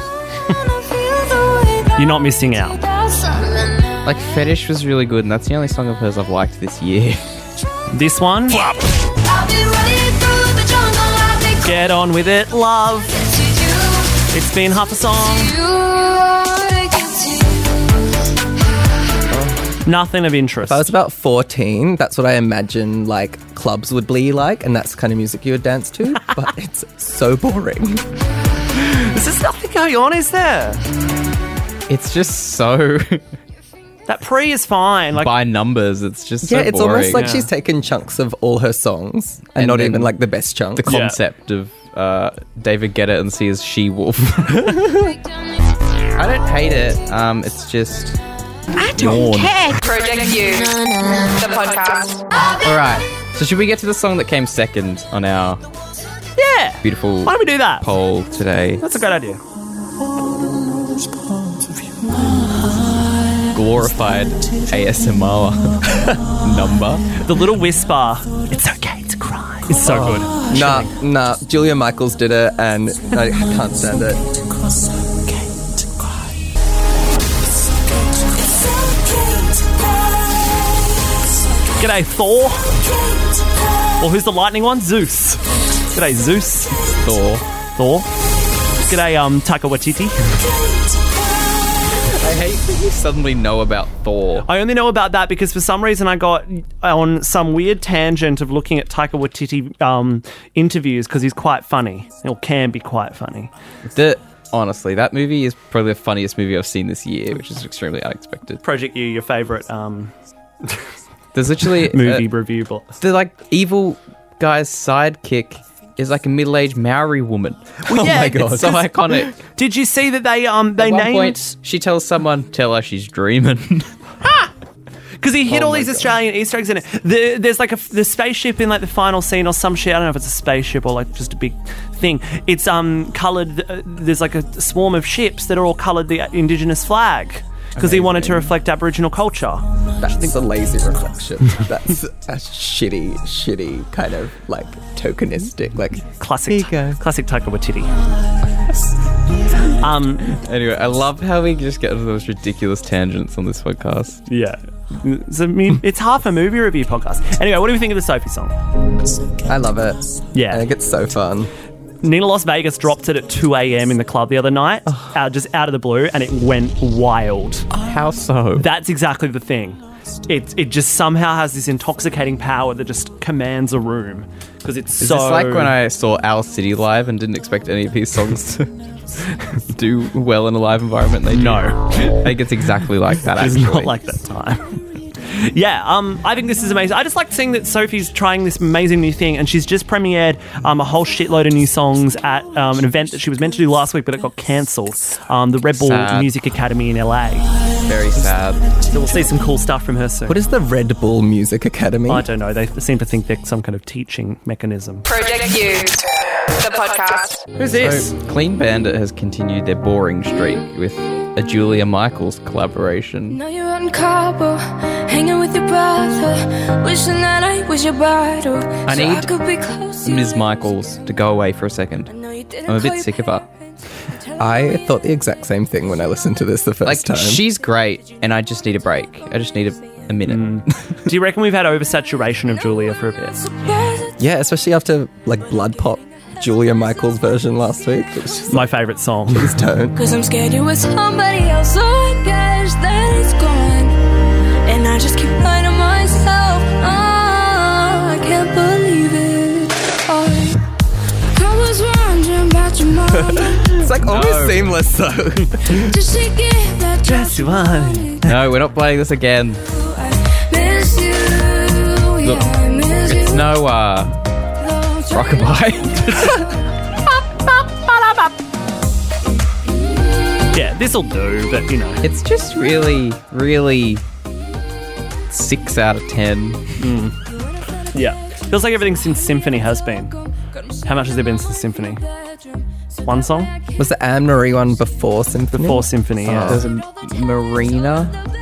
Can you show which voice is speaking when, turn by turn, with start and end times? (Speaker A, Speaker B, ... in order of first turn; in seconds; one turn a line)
Speaker A: 0.5-3.7
Speaker B: 1.9-2.8
Speaker C: 4.0-7.2
Speaker B: 7.9-8.7
Speaker A: 8.7-11.8
Speaker B: 11.6-13.2
Speaker A: 13.2-14.1
Speaker B: 14.3-15.5
Speaker A: 15.2-17.8
Speaker D: 19.3-19.6
Speaker B: 19.8-20.9
Speaker D: 20.6-28.0
Speaker B: 28.7-30.8
Speaker C: 31.9-33.2
Speaker B: 34.1-35.3
Speaker C: 35.1-37.3
Speaker D: 36.4-40.9
Speaker B: 37.1-37.5
Speaker C: 39.5-40.1
Speaker C: 40.7-44.8
Speaker B: 40.9-41.2
Speaker C: 46.1-48.2
Speaker A: 48.8-49.8
Speaker C: 48.8-49.6
Speaker E: 49.8-52.2
Speaker C: 52.6-55.6
Speaker B: 56.4-57.8
Speaker C: 56.8-58.8
Speaker B: 58.8-59.4
Speaker C: 63.5-67.2
Speaker B: 67.2-70.9
Speaker D: 69.8-74.2
Speaker B: 81.8-82.7
Speaker B: 84.0-85.4
Speaker B: 85.9-86.7
Speaker C: 86.9-87.5
Speaker B: 87.8-88.1
Speaker B: 88.8-90.5
Speaker C: 92.0-94.5
Speaker B: 94.4-103.5
Speaker C: 103.9-108.6
Speaker B: 108.6-110.1
Speaker C: 111.3-112.2
Speaker B: 111.8-112.9
Speaker C: 113.0-117.8
Speaker D: 117.8-118.8
Speaker B: 117.9-118.8
Speaker C: 118.3-119.3
Speaker B: 119.4-121.5
Speaker C: 120.8-123.9
Speaker B: 124.2-124.5
Speaker B: 125.2-139.7
Speaker D: 125.5-126.1
Speaker C: 137.8-138.5
Speaker D: 140.0-147.0
Speaker B: 146.2-147.9
Speaker B: 149.8-150.3
Speaker C: 150.3-154.2
Speaker B: 154.3-158.5
Speaker D: 159.4-161.5
Speaker B: 160.3-160.7
Speaker B: 162.0-167.7
Speaker C: 167.8-168.7
Speaker B: 168.6-175.7
Speaker C: 175.0-183.9
Speaker B: 181.3-182.3
Speaker B: 183.2-184.7
Speaker B: 185.2-197.5
Speaker C: 195.7-196.3
Speaker C: 197.8-198.7
Speaker B: 198.9-200.4
Speaker D: 200.3-202.2
Speaker B: 202.1-205.1
Speaker E: 205.1-207.4
Speaker B: 207.6-208.1
Speaker C: 207.8-213.4
Speaker A: 213.3-220.4
Speaker C: 218.8-219.3
Speaker C: 220.0-222.1
Speaker A: 222.1-223.3
Speaker C: 222.6-223.4
Speaker D: 224.4-227.4
Speaker C: 226.8-231.0
Speaker B: 230.3-233.4
Speaker A: 233.5-234.1
Speaker D: 234.2-238.7
Speaker B: 238.5-239.6
Speaker D: 239.3-240.0
Speaker A: 239.9-244.0
Speaker A: 244.7-250.6
Speaker A: 251.3-253.8
Speaker D: 253.1-255.8
Speaker C: 253.9-254.8
Speaker A: 255.8-258.2
Speaker B: 257.1-258.4
Speaker C: 258.2-259.6
Speaker A: 259.7-263.5
Speaker C: 262.2-262.5
Speaker C: 263.0-264.2
Speaker A: 264.7-265.4
Speaker C: 265.1-266.5
Speaker C: 267.4-268.3
Speaker B: 270.5-272.0
Speaker C: 272.0-274.0
Speaker C: 275.3-276.8
Speaker B: 276.8-277.1
Speaker B: 277.9-280.1
Speaker B: 280.8-282.0
Speaker B: 283.0-283.5
Speaker D: 283.8-286.6
Speaker B: 285.5-286.6
Speaker C: 286.4-288.2